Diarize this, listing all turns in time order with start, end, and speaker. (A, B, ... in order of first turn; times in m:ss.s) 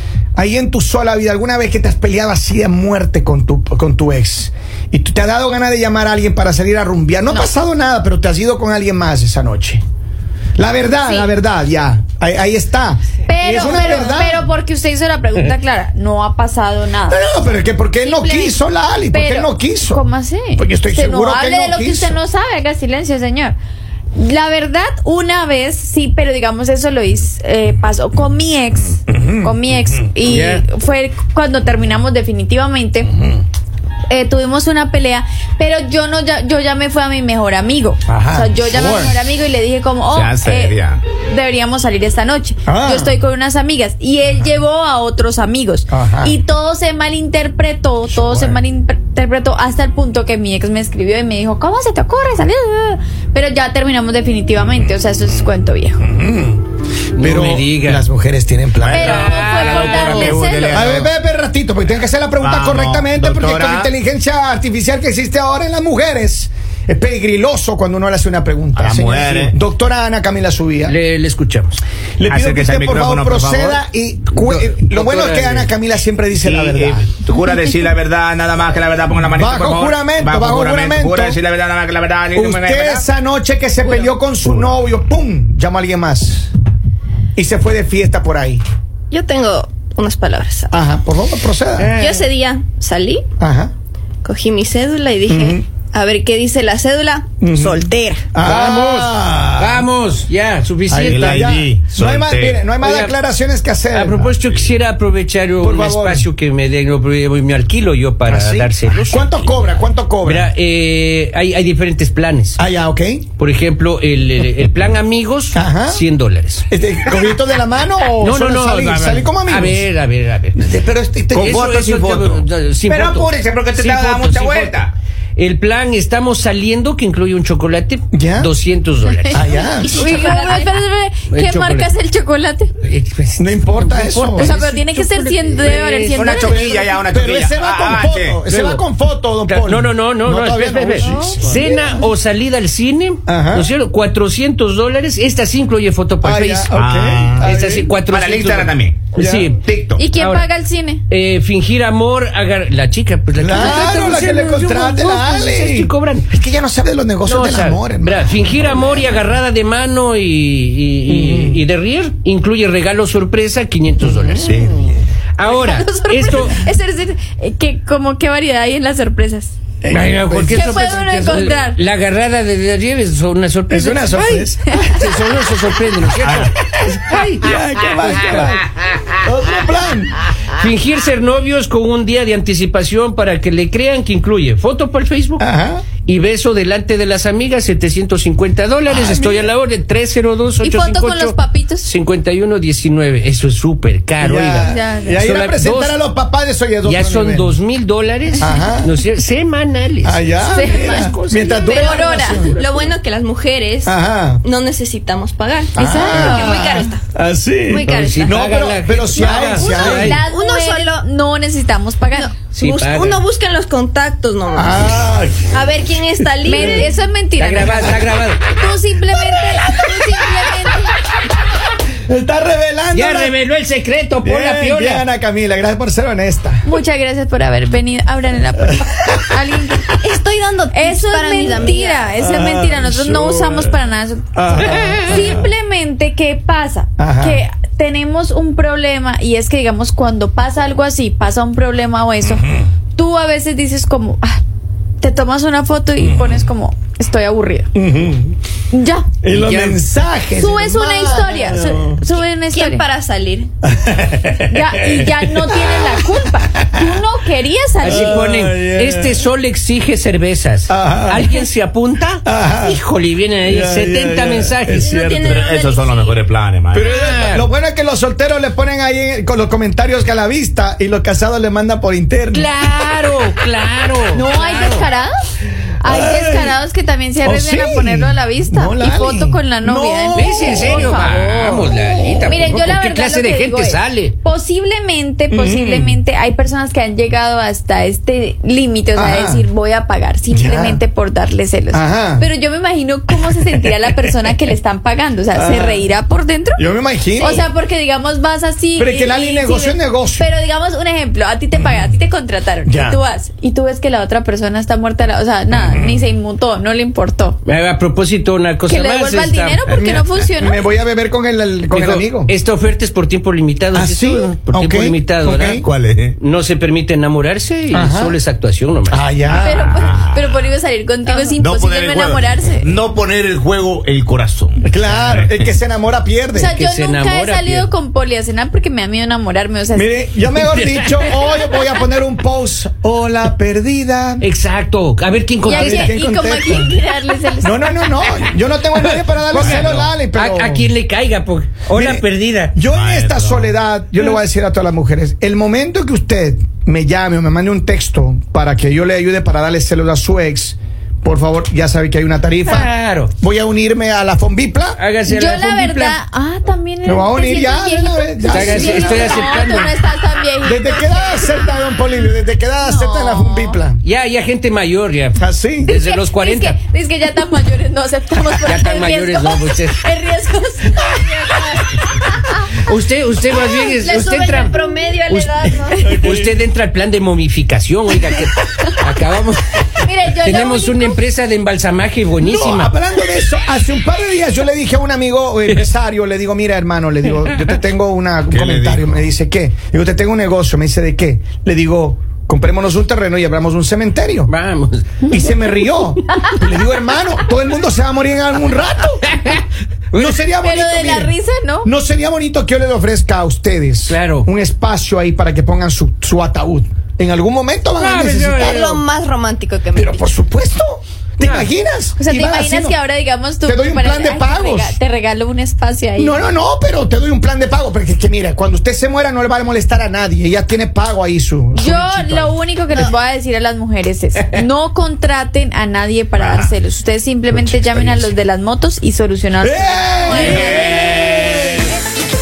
0:00.4-0:09.8 A
0:10.6-0:14.4 A
0:11.0-0:11.3 B
0:13.2-0:17.2 B
0:17.0-0:22.2 A
0:18.0-0:18.6 B
0:19.1-0:23.6 B
0:24.1-0:33.1 B
0:29.1-0:30.1 A
0:30.2-0:30.6 C
0:33.1-0:33.4 A
0:34.1-0:56.1 B
0:38.1-0:39.2 A
0:40.1-0:41.0 D
0:42.6-0:43.2 A
0:45.9-0:46.3 A
0:48.1-0:48.6 A
0:56.0-0:56.6 A
0:57.2-0:58.0 C
0:57.2-0:59.2 A
0:58.8-1:01.1 D
0:58.9-1:00.8 B
0:58.9-1:00.4 C
1:00.7-1:11.0 A
1:02.4-1:03.9 D
1:08.8-1:09.5 D
1:10.8-1:11.8 C
1:12.2-1:17.1 A
1:12.3-1:13.8 D
1:14.3-1:15.7 C
1:16.4-1:23.0 D
1:19.3-1:21.4 A
1:22.3-1:26.5 A
1:27.4-1:28.6 A
1:29.1-1:30.7 E
1:30.7-1:31.9 A
1:31.8-1:32.3 C
1:32.0-1:33.2 E
1:33.4-1:33.7 A
1:34.2-1:38.2 E
1:35.3-1:35.6 A
1:37.4-1:37.8 A
1:38.3-1:39.9 A
1:38.4-1:41.6 C
1:40.9-1:44.2 A
1:41.0-1:42.6 D
1:42.8-1:43.2 C
1:43.9-1:49.4 C
1:44.2-1:44.7 D
1:45.6-1:46.3 A
1:48.3-1:50.5 A
1:50.2-1:52.6 C
1:52.6-1:53.2 A
1:53.4-1:56.6 C
1:55.5-1:56.0 A
1:56.7-1:59.8 A
1:58.2-2:00.6 C
2:00.6-2:01.6 A
2:01.3-2:04.9 D
2:01.3-2:04.8 C
2:05.4-2:10.3 C
2:08.1-2:08.5 A
2:09.3-2:10.1 A
2:09.3-2:12.7 B
2:09.9-2:10.7 E
2:11.3-2:11.9 C
2:12.8-2:16.5 C
2:13.4-2:14.6 A
2:14.4-2:16.6 B
2:16.1-2:18.4 D
2:16.2-2:22.1 A
2:18.5-2:18.8 C
2:19.5-2:26.7 C
2:21.0-2:21.9 B
2:23.2-2:23.7 A
2:26.2-2:27.9 A
2:26.7-2:30.1 D
2:27.4-2:29.6 C
2:29.1-2:29.5 A
2:30.0-2:31.0 B
2:30.2-2:30.5 C
2:31.1-2:36.3 C
2:33.3-2:39.1 A
2:37.2-2:44.7 C
2:41.1-2:41.6 A
2:44.0-2:44.7 A
2:44.4-2:45.0 D
2:45.4-2:46.6 C
2:45.4-2:49.5 B
2:49.8-2:50.7 A
2:49.9-2:59.1 C
2:50.5-2:51.8 B
2:53.7-2:55.5 A
2:56.2-2:56.5 D
2:57.4-3:00.1 A
3:00.4-3:05.4 C
3:05.4-3:05.8 A
3:06.0-3:16.0 C
3:08.9-3:09.5 A
3:10.6-3:11.9 B
3:14.2-3:17.6 A
3:14.6-3:15.2 B
3:16.8-3:21.4 C
3:18.4-3:19.0 A
3:20.0-3:22.6 A
3:20.4-3:22.7 B
3:21.7-3:27.0 E
3:23.8-3:24.4 A
3:25.8-3:26.6 B
3:25.8-3:30.2 A
3:27.7-3:28.3 E
3:27.8-3:30.2 C
3:29.5-3:32.3 B
3:30.1-3:31.0 E
3:32.1-3:34.9 E
3:32.5-3:33.2 C
3:34.5-3:35.7 A
3:35.5-3:36.9 E
3:36.2-3:36.8 A
3:36.4-3:41.0 B
3:37.4-3:38.5 C
3:41.9-3:43.4 A
3:42.9-3:45.0 C
3:44.2-3:46.6 A
3:46.6-3:50.0 B
3:48.6-3:49.3 A
3:50.0-3:52.1 E
3:50.7-4:04.4 B
3:52.2-3:53.8 A
3:54.3-3:55.5 A
3:54.6-3:55.2 C
3:57.0-3:57.4 A
4:05.0-4:07.7 B
4:06.0-4:06.4 A
4:07.7-4:08.4 A
4:08.7-4:09.1 B
4:09.2-4:12.0 A
4:09.3-4:09.8 C
4:10.4-4:12.8 B
4:12.5-4:13.5 E
4:13.6-4:17.0 A
4:14.5-4:18.2 B
4:17.8-4:25.0 C
4:17.8-4:19.2 A
4:20.7-4:21.4 A
4:22.2-4:22.8 A
4:23.4-4:25.4 A
4:24.7-4:26.2 E
4:25.2-4:26.9 D
4:26.7-4:32.6 A
4:26.8-4:27.5 C
4:32.3-4:34.8 C
4:34.1-4:35.1 B
4:35.8-4:56.6 B
4:35.8-4:36.6 A
4:37.2-4:42.4 A
4:40.1-4:44.1 C
4:45.3-4:46.0 A
4:48.9-4:49.5 A
4:50.3-4:50.8 A
4:51.7-4:52.3 A
4:53.2-4:53.7 A
4:55.3-4:55.8 A
4:56.6-4:57.5 A
4:57.2-4:57.4 E
4:57.2-5:07.4 B
4:58.8-5:00.3 A
5:02.6-5:03.0 A
5:05.5-5:06.1 A
5:07.4-5:09.7 C
5:08.7-5:10.6 B
5:09.7-5:12.3 A
5:11.7-5:15.6 C
5:13.7-5:15.6 A
5:15.6-5:16.2 D
5:16.2-5:19.0 C
5:17.7-5:18.2 A
5:18.9-5:19.8 A
5:19.3-5:20.5 D
5:19.3-5:22.7 B
5:21.2-5:25.5 D
5:24.6-5:26.5 A
5:26.3-5:29.9 B
5:26.5-5:27.7 C
5:29.7-5:34.2 A
5:30.4-5:31.5 C
5:34.2-5:36.0 C
5:35.5-5:36.8 A
5:35.5-5:37.9 B
5:37.4-5:40.7 A
5:38.7-5:42.6 C
5:39.4-5:39.9 D
5:41.7-5:54.8 A
5:42.6-5:43.5 D
5:52.4-5:53.1 C
5:54.8-5:56.0 C
5:55.1-6:01.6 B
5:56.8-5:59.7 A
5:58.3-5:59.7 C
6:00.4-6:03.8 A
6:02.6-6:03.6 B
6:03.8-6:06.6 C
6:05.2-6:05.7 A
6:05.6-6:12.5 B
6:08.4-6:09.8 C
6:12.6-6:22.7 C
6:13.4-6:15.9 E
6:15.8-6:16.0 B
6:15.8-6:16.3 A
6:19.8-6:21.0 B
6:22.2-6:34.3 A
6:28.3-6:29.0 D
6:34.3-6:36.5 C
6:35.1-6:39.1 A
6:39.0-6:40.3 C
6:39.9-6:48.6 A
6:40.4-6:41.7 B
6:43.9-6:44.3 C
6:47.8-6:48.8 C
6:48.2-6:50.0 E
6:49.7-6:52.8 A
6:51.2-6:51.5 C
6:52.0-6:56.2 B
6:53.4-6:54.8 A
6:56.0-7:02.4 A
7:01.5-7:11.1 B
7:06.2-7:06.5 A
7:07.3-7:08.1 A
7:09.4-7:11.7 A
7:10.2-7:10.8 D